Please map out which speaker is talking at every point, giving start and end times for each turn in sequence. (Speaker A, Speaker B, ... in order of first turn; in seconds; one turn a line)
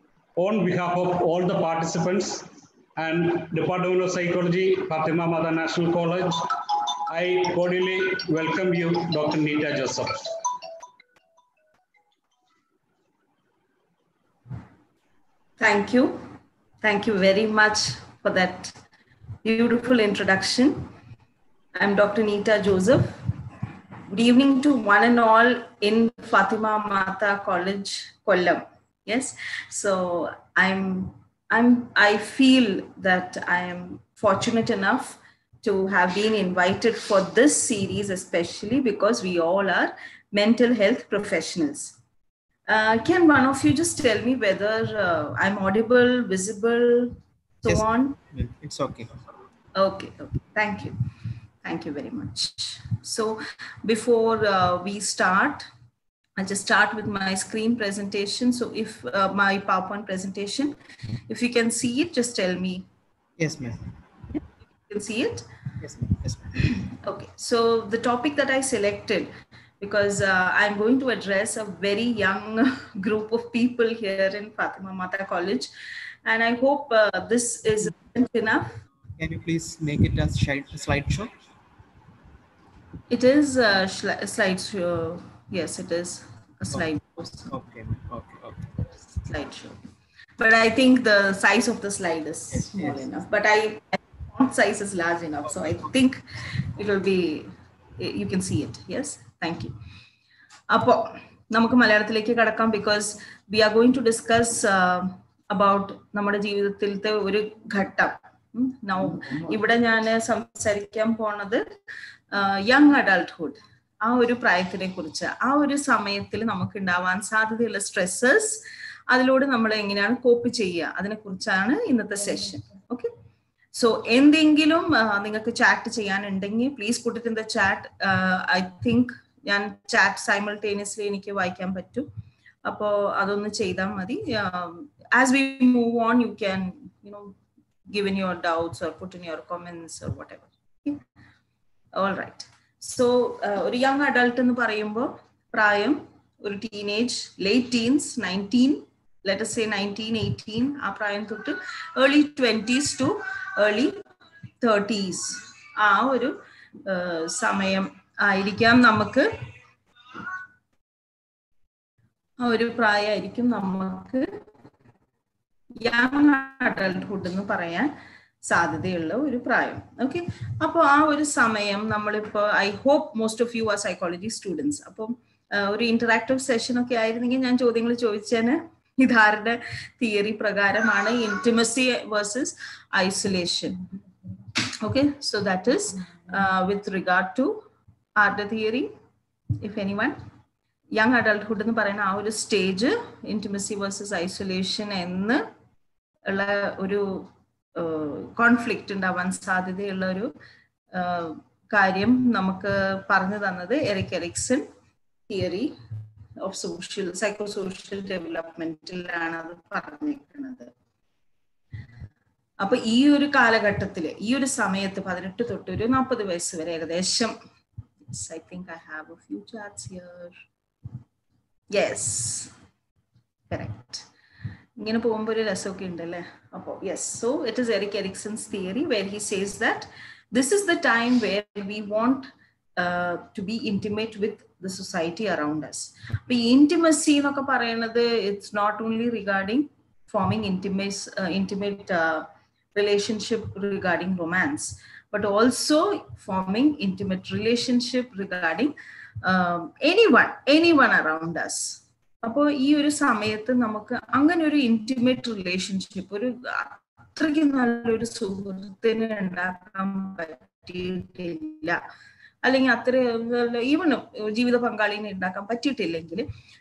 Speaker A: 0.3-10.4
Speaker B: 15.6-16.2
Speaker B: 16.8-18.8
Speaker B: 19.4-20.9
Speaker B: 21.8-23.2
Speaker B: 24.1-42.0
Speaker B: 42.7-48.2
Speaker C: 47.6-49.1
Speaker B: 49.7-51.0
Speaker B: 51.6-55.7
Speaker B: 56.4-60.8
Speaker B: 61.3-62.9
Speaker C: 63.4-63.8
Speaker B: 64.9-65.5
Speaker C: 65.8-66.7
Speaker B: 66.7-75.7
Speaker B: 76.2-78.8
Speaker C: 79.2-81.3
Speaker B: 83.1-87.5
Speaker C: 87.5-88.7
Speaker B: 89.2-89.8
Speaker B: 90.4-99.7
Speaker C: 92.5-93.0
Speaker B: 100.7-111.7
Speaker B: 112.3-123.1
Speaker B: 123.7-132.1
Speaker B: 132.6-137.3
Speaker B: 137.9-141.0
Speaker B: 141.9-154.0
Speaker B: 154.6-159.3
Speaker B: 162.4-164.3
Speaker B: 165.8-167.9
Speaker B: 168.4-183.8
Speaker B: 184.8-187.5
Speaker B: 188.2-188.9
Speaker B: 189.6-190.2
Speaker B: 190.9-195.4
Speaker B: 196.2-200.3
Speaker B: 200.9-204.7
Speaker B: 205.3-205.7
Speaker B: 206.4-210.7
Speaker B: 212.6-217.3
Speaker B: 218.1-220.4
Speaker B: 221.7-222.5
Speaker B: 223.5-224.1
Speaker B: 224.8-261.8
Speaker B: 262.4-266.3